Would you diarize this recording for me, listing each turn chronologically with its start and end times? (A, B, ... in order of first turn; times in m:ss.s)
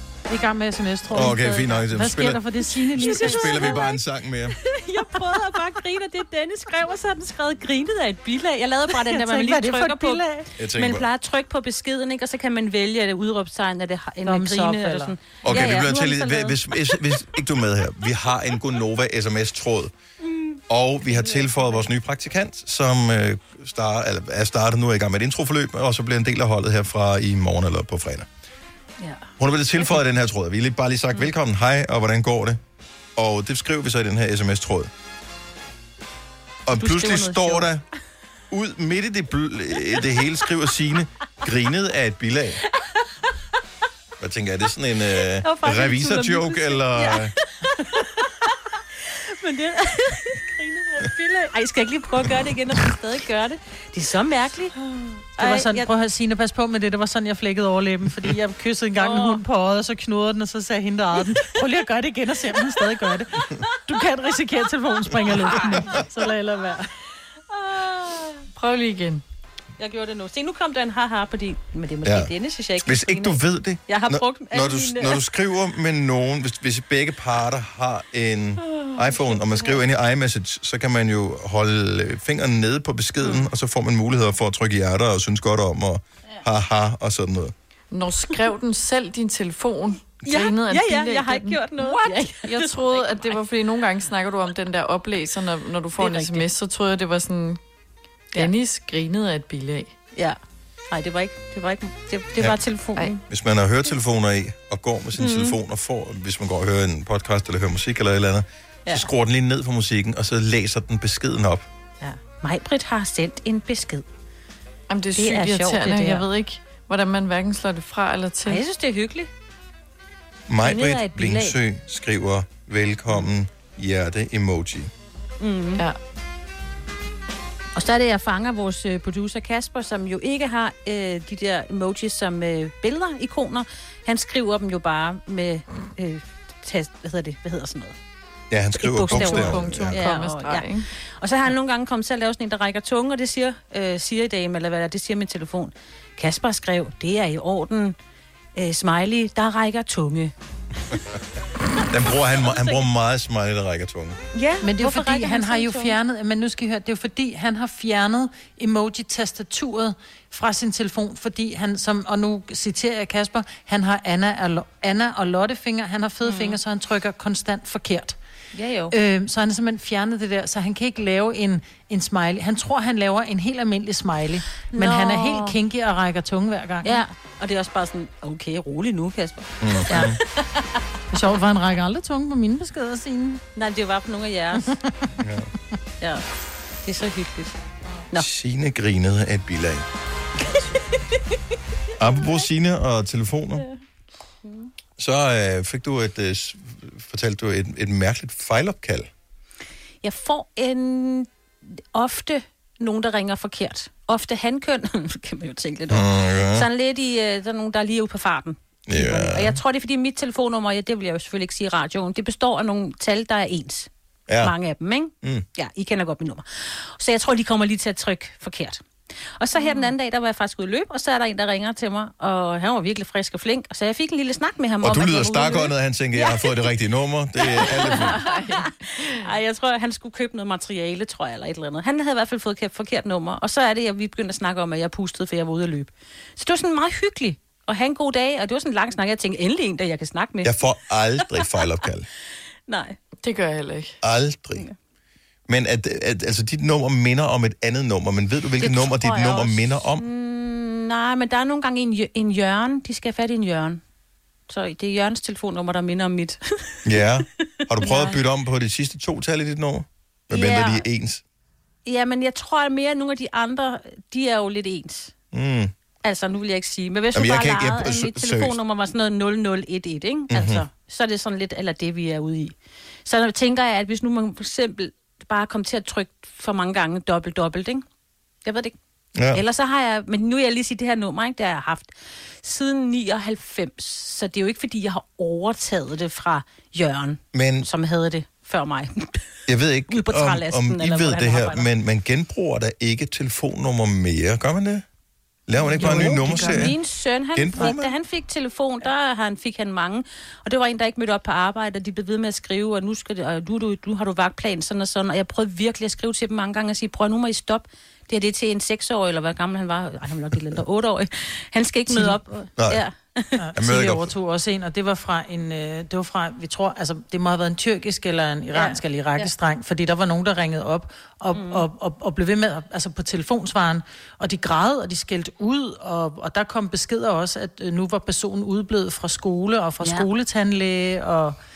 0:00.3-0:03.8 A
0:01.1-0:02.4 B
0:02.9-0:04.6 B
0:03.0-0:03.9 C
0:04.6-0:17.0 C
0:08.9-0:10.4 A
0:10.6-0:11.1 B
0:14.2-0:15.1 A
0:15.4-0:19.9 B
0:20.7-0:28.3 B
0:21.1-0:21.7 C
0:29.0-0:29.3 C
0:29.4-0:32.6 B
0:33.2-0:34.9 B
0:36.6-0:37.8 B
0:36.8-0:37.7 C
0:38.5-0:42.6 B
0:44.2-0:47.3 B
0:45.4-0:48.5 C
0:49.0-0:54.7 C
0:55.4-0:55.9 C
0:55.4-1:06.8 A
0:59.0-0:59.4 C
1:07.5-1:08.4 C
1:08.6-1:09.2 D
1:09.8-1:15.2 C
1:12.0-1:12.3 B
1:12.8-1:27.5 B
1:27.9-1:37.6 D
1:30.2-1:33.4 C
1:36.0-1:36.5 C
1:38.3-1:39.9 D
1:40.9-1:43.2 C
1:43.3-1:51.6 B
1:45.2-1:45.5 C
1:52.0-1:54.0 C
1:54.9-1:58.6 D
1:55.1-1:56.2 C
1:58.4-1:59.3 C
2:00.5-2:04.9 B
2:00.6-2:01.6 C
2:05.4-2:05.8 C
2:07.8-2:18.0 C
2:18.5-2:20.0 B
2:18.7-2:28.0 C
2:19.1-2:20.9 D
2:28.6-2:30.3 C
2:31.9-2:34.2 B
2:32.5-2:32.8 C
2:34.3-2:35.9 C
2:34.6-2:48.2 A
2:46.2-2:46.6 C
2:48.5-2:48.9 C
2:48.9-2:57.0 A
2:54.7-2:55.6 C
2:56.8-3:00.8 C
2:59.6-3:00.2 B
3:01.1-3:03.4 A
3:03.6-3:04.7 C
3:05.2-3:05.5 B
3:06.8-3:07.5 C
3:08.2-3:09.8 B
3:12.0-3:13.6 B
3:14.4-3:14.7 C
3:15.0-3:19.1 B
3:20.0-3:21.3 C
3:21.8-3:38.8 C
3:25.9-3:26.7 B
3:28.9-3:29.6 B
3:34.3-3:34.5 B
3:39.4-3:46.6 C
3:44.8-3:48.2 B
3:47.4-4:00.5 C
3:47.6-3:49.0 D
4:00.4-4:02.1 B
4:02.7-4:03.0 C
4:03.2-4:03.9 D
4:04.0-4:04.6 B
4:05.5-4:10.0 B
4:08.6-4:13.8 C
4:14.5-4:16.8 C
4:16.8-4:21.2 B
4:17.7-4:18.2 C
4:20.3-4:20.8 C
4:21.8-4:25.1 C
4:25.3-4:25.7 B
4:26.0-4:37.8 C
4:27.1-4:28.6 B
4:30.3-4:30.6 B
4:38.4-4:38.7 C
4:39.2-4:39.4 B
4:39.3-4:49.2 C
4:47.3-4:47.7 B
4:49.5-4:54.8 B
4:49.9-4:51.7 C
4:55.5-4:56.8 B
4:55.6-4:56.7 A
4:55.7-5:13.3 C
4:57.3-4:57.9 B
5:11.9-5:12.2 A
5:13.4-5:31.4 A
5:13.6-5:14.1 B
5:18.5-5:19.3 C
5:21.3-5:21.6 C
5:29.8-5:30.1 C